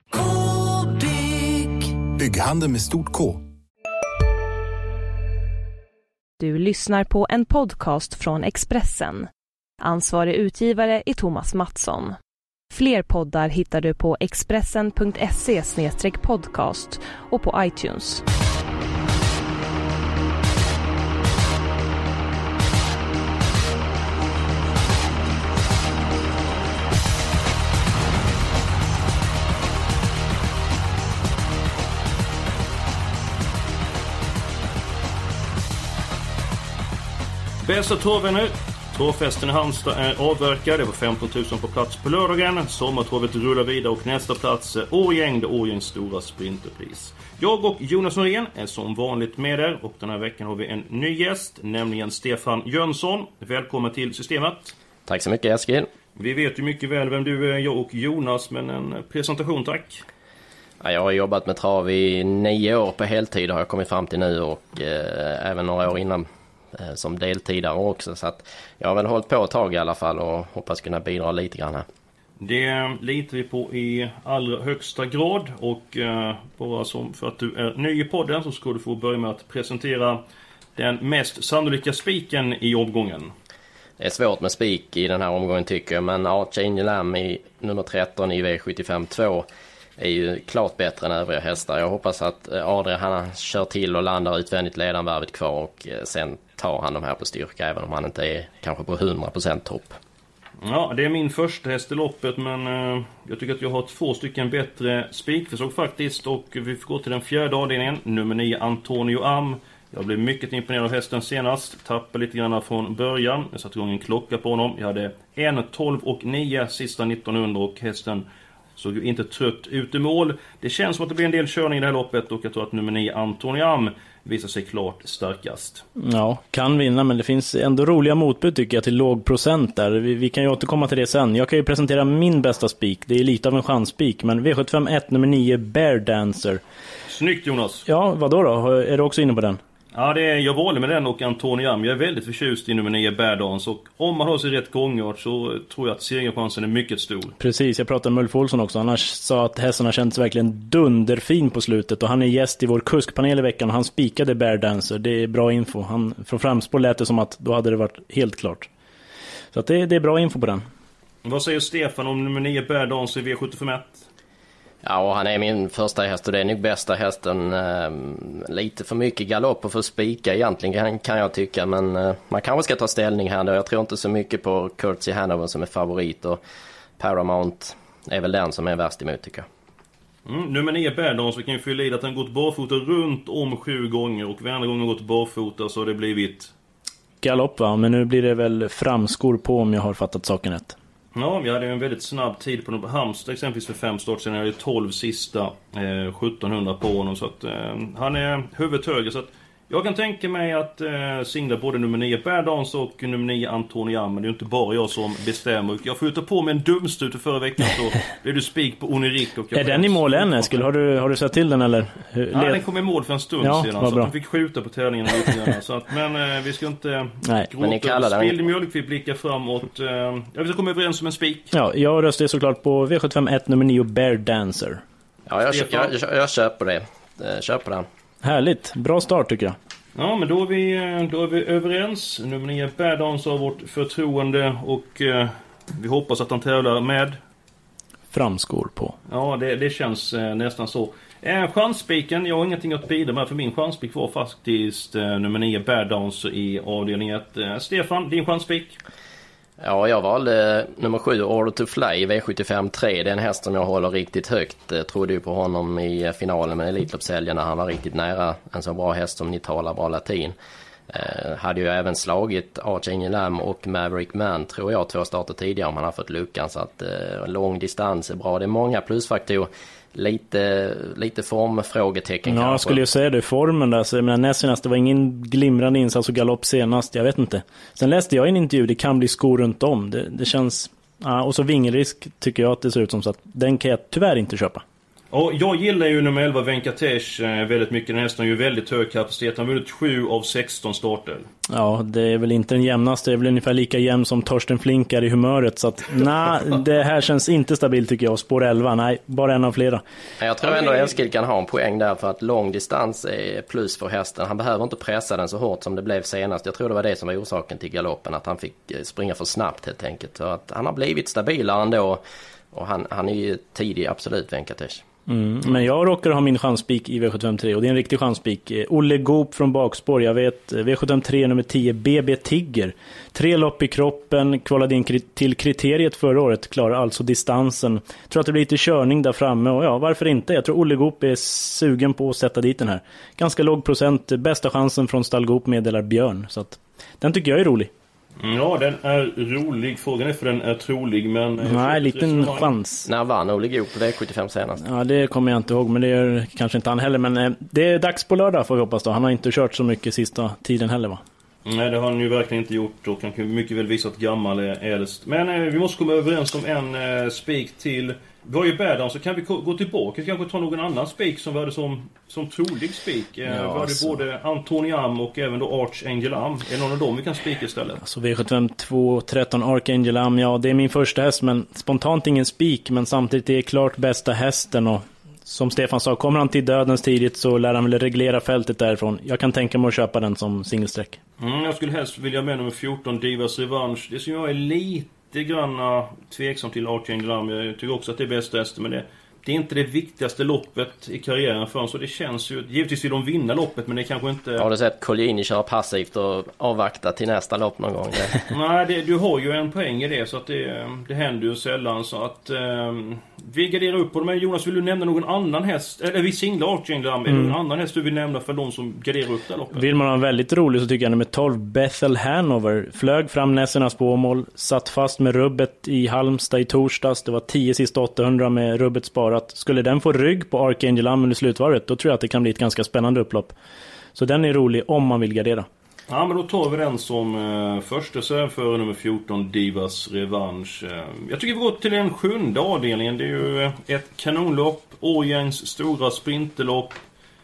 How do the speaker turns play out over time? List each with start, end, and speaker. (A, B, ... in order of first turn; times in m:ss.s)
0:01.5-0:03.4 A
0:06.4-0:09.3 B
0:09.8-0:12.2 B
0:12.7-0:18.2 B
0:37.6-0:54.8 C
0:55.1-0:55.9 D
0:56.2-1:00.0 C
1:00.8-1:11.9 D
1:12.4-1:20.2 C
1:20.8-1:23.3 C
1:24.0-1:29.5 D
1:30.0-1:40.0 D
1:40.6-1:58.2 C
1:58.8-2:05.8 C
2:06.0-2:16.6 E
2:17.1-2:17.9 C
2:17.9-2:19.6 E
2:19.9-2:27.4 C
2:27.4-2:38.7 E
2:39.5-2:40.6 E
2:41.2-2:44.1 C
2:44.8-2:56.4 D
2:57.0-2:59.5 D
3:00.3-3:06.5 C
3:07.2-3:10.8 E
3:11.1-3:30.7 C
3:29.5-3:32.6 E
3:32.3-3:41.5 C
3:33.4-3:34.1 E
3:37.6-3:38.5 D
3:41.5-3:44.8 E
3:45.3-3:47.9 D
3:45.5-3:45.9 C
3:48.2-3:49.6 E
3:50.0-3:57.2 C
3:58.1-3:59.0 E
3:59.1-4:08.8 C
4:09.6-4:20.4 D
4:20.9-4:32.8 D
4:32.3-4:44.6 E
4:45.1-4:51.3 C
4:51.5-4:59.8 E
5:00.2-5:14.8 D
5:15.1-5:37.7 E
5:38.2-5:42.5 C
5:41.5-5:42.9 E
5:42.9-5:44.6 D
5:44.6-5:51.0 E
5:51.4-6:07.8 C
6:03.3-6:04.0 E
6:07.8-6:21.0 E
6:21.2-6:34.5 C
6:34.4-6:38.2 D
6:38.3-6:49.7 C
6:47.1-6:47.4 E
6:49.5-7:03.3 E
7:04.0-7:05.5 E
7:05.9-7:16.8 C